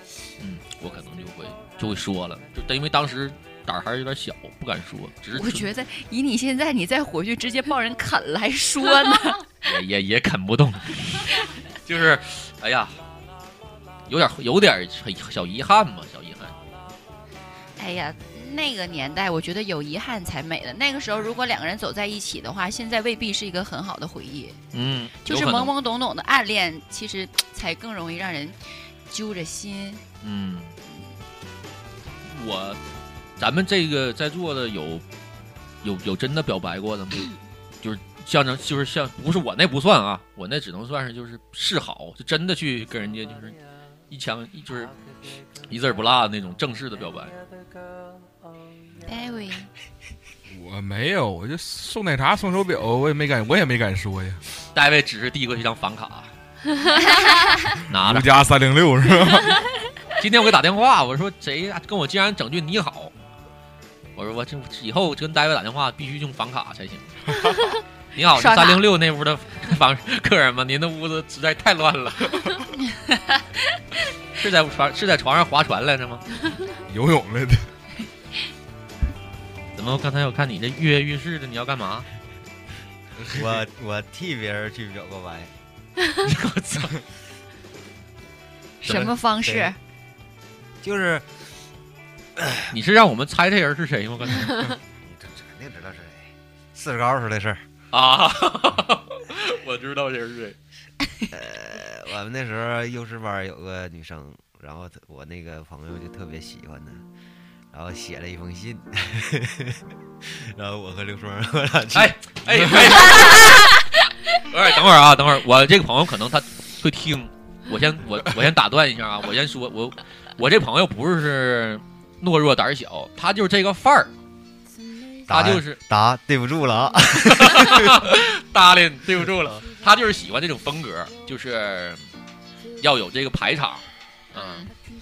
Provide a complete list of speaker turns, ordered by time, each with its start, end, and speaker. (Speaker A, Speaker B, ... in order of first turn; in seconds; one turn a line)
Speaker A: 0.4-5.7
Speaker B: 5.3-9.5
Speaker A: 9.6-13.0
Speaker A: 14.1-16.5
Speaker B: 17.8-24.6
Speaker A: 24.7-25.7
Speaker B: 25.2-30.0
Speaker A: 30.2-30.7
Speaker A: 32.2-32.8
Speaker A: 33.4-35.0
Speaker A: 35.8-37.3
Speaker A: 37.8-43.6
Speaker A: 44.1-44.9
Speaker A: 45.7-47.4
Speaker B: 49.0-49.7
Speaker C: 50.5-54.4
Speaker A: 54.8-56.3
Speaker B: 57.0-57.7
Speaker A: 57.9-58.4
Speaker C: 57.9-59.6
Speaker A: 60.2-63.1
Speaker A: 64.2-67.1
Speaker A: 68.1-72.6
Speaker B: 72.8-73.5
Speaker A: 74.4-76.2
Speaker C: 76.9-77.7
Speaker A: 79.8-82.1
Speaker D: 83.3-85.5
Speaker A: 86.2-87.0
Speaker B: 88.8-89.8
Speaker D: 89.4-89.8
Speaker D: 90.8-91.3
Speaker D: 92.4-92.7
Speaker A: 92.7-94.8
Speaker D: 95.0-97.6
Speaker A: 97.9-100.6
Speaker D: 101.3-107.0
Speaker D: 107.7-113.0
Speaker A: 111.9-124.1
Speaker D: 125.3-128.1
Speaker A: 125.3-125.8
Speaker A: 127.2-132.0
Speaker A: 132.8-134.6
Speaker B: 134.3-134.7